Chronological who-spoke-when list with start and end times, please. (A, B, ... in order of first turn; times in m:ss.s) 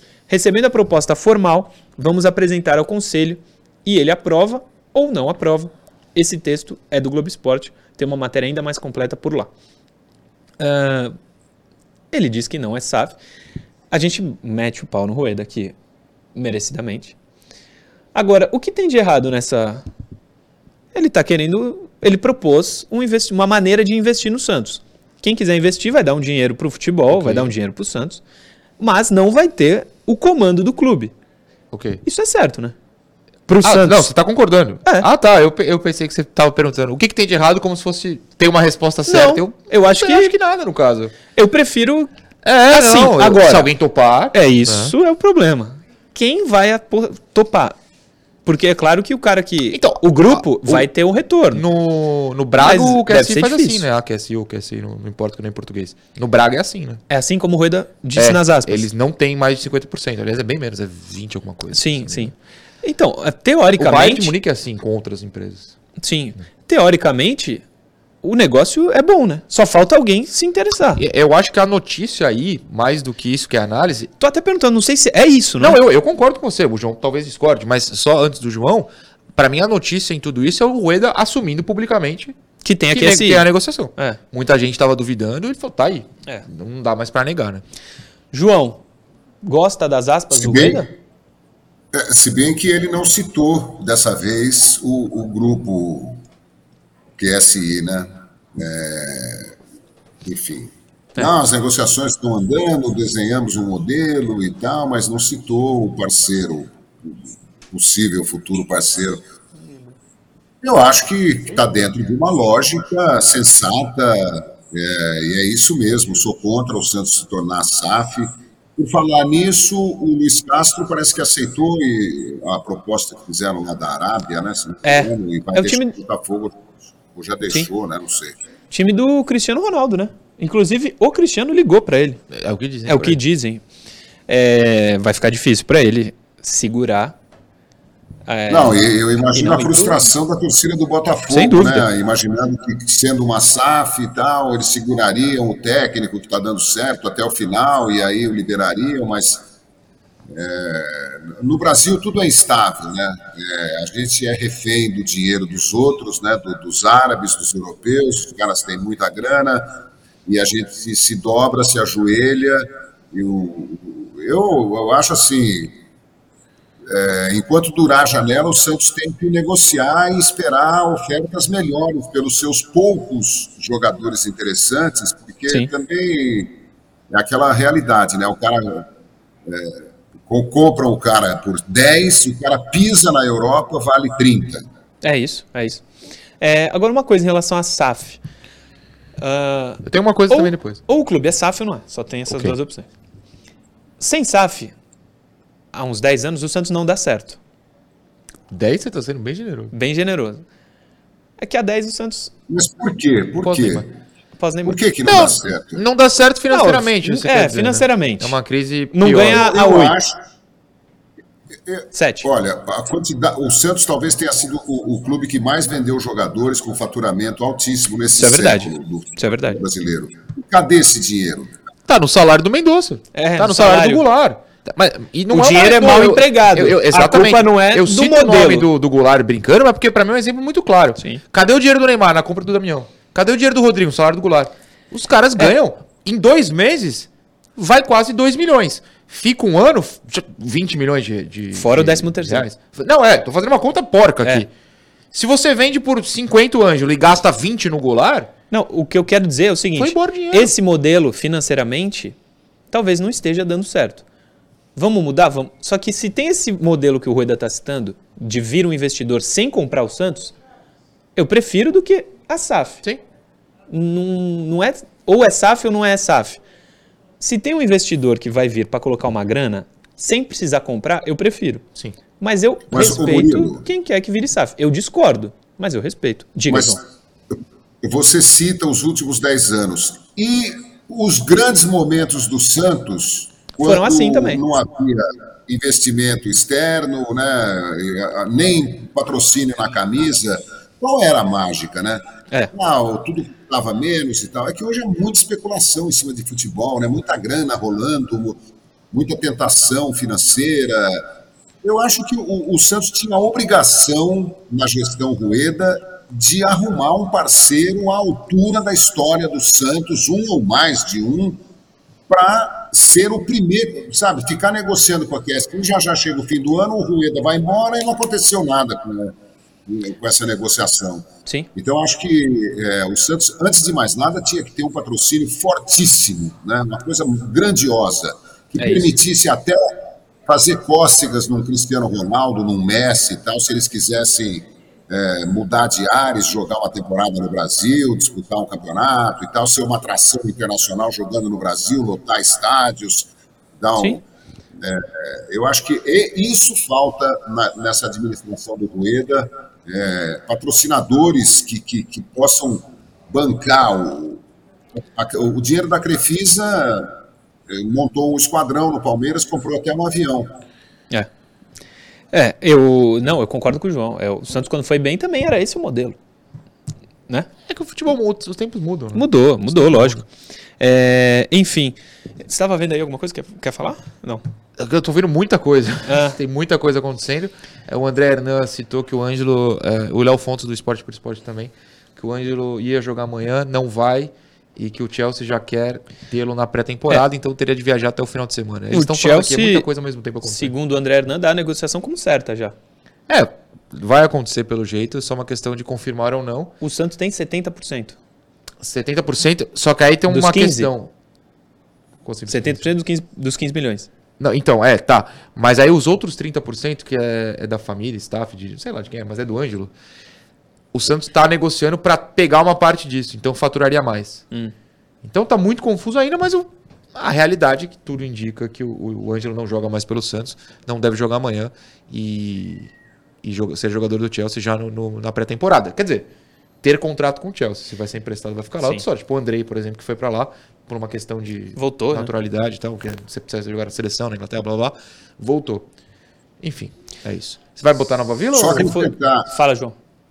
0:00.3-0:09.5 A
0:10.6-0:11.2 A
0:12.1-0:13.2 A
0:13.9-0:15.8 A
0:16.4-0:17.2 A
0:18.1-0:19.8 A
0:20.9-0:28.2 A
0:27.1-0:27.5 B
0:28.8-0:31.1 A
0:31.7-0:32.0 B
0:32.0-0:32.8 A
0:33.5-0:34.1 A
0:33.6-0:41.1 B
0:39.1-0:40.3 A
0:41.3-0:42.1 A
0:42.4-0:44.9 B
0:42.7-0:43.7 A
0:44.3-0:47.8 A
0:48.4-0:51.6 A
0:49.7-0:50.9 B
0:51.5-0:57.0 B
0:52.6-0:53.9 A
0:57.1-0:58.9 A
0:58.2-1:02.3 B
1:01.7-1:02.3 A
1:02.8-1:04.3 A
1:03.8-1:05.7 B
1:06.0-1:07.6 A
1:08.2-1:11.0 A
1:11.0-1:14.1 B
1:14.2-1:15.8 A
1:15.6-1:22.4 B
1:22.6-1:24.2 A
1:22.9-1:27.6 B
1:28.3-1:28.8 A
1:29.4-1:30.9 A
1:30.3-1:30.9 C
1:31.9-1:36.2 C
1:37.2-1:39.6 C
1:40.2-1:49.2 C
1:50.6-2:08.4 C
2:04.8-2:05.9 A
2:08.7-2:12.2 A
2:12.3-2:13.2 B
2:12.9-2:13.6 A
2:14.3-2:17.2 A
2:18.3-2:20.0 A
2:18.5-2:29.5 C
2:21.3-2:21.9 A
2:30.3-2:45.8 C
2:46.9-2:56.6 C
2:57.1-2:58.9 C
2:59.4-3:04.7 C
3:05.0-3:05.8 A
3:06.4-3:08.2 A
3:09.2-3:12.9 A
3:09.8-3:10.8 B
3:12.3-3:12.6 B
3:14.0-3:14.7 A
3:15.7-3:17.4 A
3:18.5-3:19.7 B
3:19.7-3:20.4 A
3:21.4-3:22.3 A
3:22.5-3:23.9 C
3:23.4-3:23.9 B
3:24.4-3:24.8 A
3:24.6-3:25.8 C
3:25.0-3:29.5 B
3:26.5-3:28.4 A
3:28.9-3:30.0 A
3:29.2-3:30.2 C
3:31.7-3:41.5 C
3:31.9-3:32.3 A
3:38.2-3:39.6 A
3:41.9-4:04.5 B
3:43.1-3:44.1 A
3:45.3-3:48.7 A
4:01.5-4:02.5 A
4:05.1-4:08.3 B
4:08.5-4:12.2 A
4:09.8-4:10.5 B
4:12.7-4:14.0 A
4:14.8-4:20.4 A
4:21.2-4:22.8 A
4:23.7-4:26.4 A
4:27.2-4:31.6 A
4:32.2-4:36.8 A
4:32.7-4:33.7 C
4:36.5-4:36.9 C
4:37.8-4:58.4 C
4:43.6-4:44.4 A
4:58.9-5:01.1 C
5:01.6-5:11.4 C
5:12.1-5:19.2 C
5:19.7-5:44.0 C
5:28.6-5:28.9 A
5:44.6-5:54.2 C
5:54.8-5:57.0 C
5:57.5-6:00.3 C
6:02.1-6:06.0 A
6:07.5-6:10.0 B
6:08.9-6:10.1 A
6:10.6-6:14.2 A
6:14.6-6:30.5 B
6:15.9-6:16.2 A
6:28.7-6:29.6 A
6:30.2-6:32.5 A
6:33.1-6:36.5 B
6:36.6-6:38.0 A
6:38.6-6:40.9 B
6:40.1-6:40.7 A
6:42.0-6:42.6 B
6:42.3-6:43.9 A
6:44.2-6:49.7 B
6:50.7-6:54.2 B
6:55.0-7:02.7 B
7:03.2-7:06.1 B
7:06.6-7:15.7 B
7:11.6-7:12.1 A
7:16.4-7:18.8 B
7:18.3-7:19.3 C
7:18.5-7:19.8 A